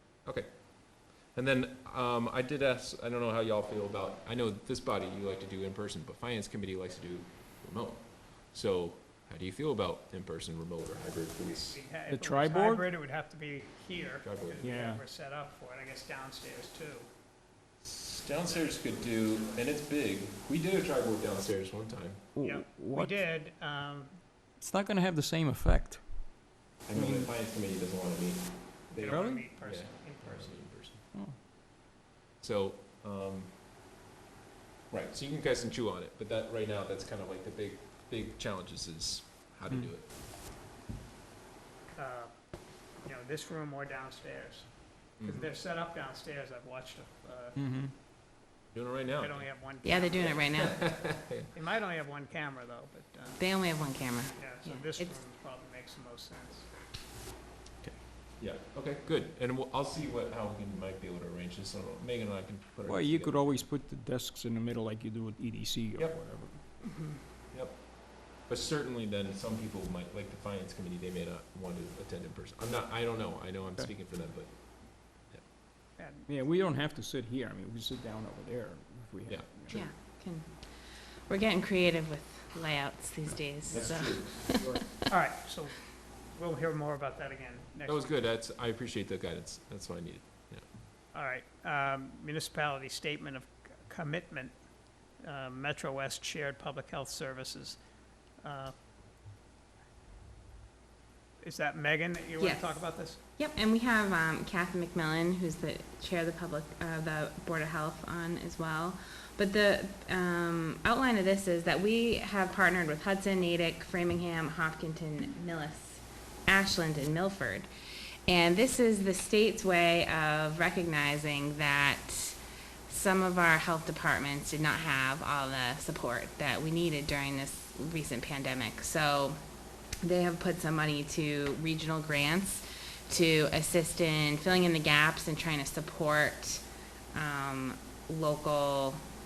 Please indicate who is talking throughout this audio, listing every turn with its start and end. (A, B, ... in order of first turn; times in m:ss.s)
0:00.2-0:11.8 A
0:11.1-0:17.1 B
0:12.1-0:12.8 C
0:14.2-0:14.6 A
0:14.6-0:15.0 C
0:17.8-0:22.2 A
0:18.3-0:19.7 B
0:22.3-0:23.2 C
0:22.4-0:24.2 B
0:24.6-0:27.3 C
0:26.8-0:31.0 A
0:28.9-0:30.6 B
0:29.1-0:29.4 C
0:32.4-0:33.6 A
0:34.9-0:40.1 A
0:41.9-0:42.3 B
0:43.0-0:47.6 B
0:45.2-0:45.4 A
0:47.6-0:47.9 C
0:48.7-0:49.5 A
0:49.2-0:50.5 B
0:49.8-0:50.9 D
0:50.2-0:51.5 A
0:51.5-0:53.4 B
0:53.4-0:55.2 D
0:54.4-0:56.7 B
0:58.4-1:03.7 A
1:02.8-1:06.6 C
1:05.9-1:06.2 A
1:06.8-1:07.2 B
1:07.5-1:15.4 A
1:16.0-1:16.2 B
1:16.3-1:19.8 C
1:19.3-1:19.9 A
1:19.7-1:20.7 D
1:21.3-1:24.5 D
1:23.7-1:24.8 A
1:25.1-1:28.2 B
1:27.8-1:30.7 A
1:31.1-1:34.6 B
1:35.2-1:37.8 B
1:38.4-1:38.7 B
1:41.4-1:43.2 B
1:42.4-1:42.8 D
1:43.4-1:57.7 D
1:58.3-2:09.4 D
2:10.0-2:19.0 D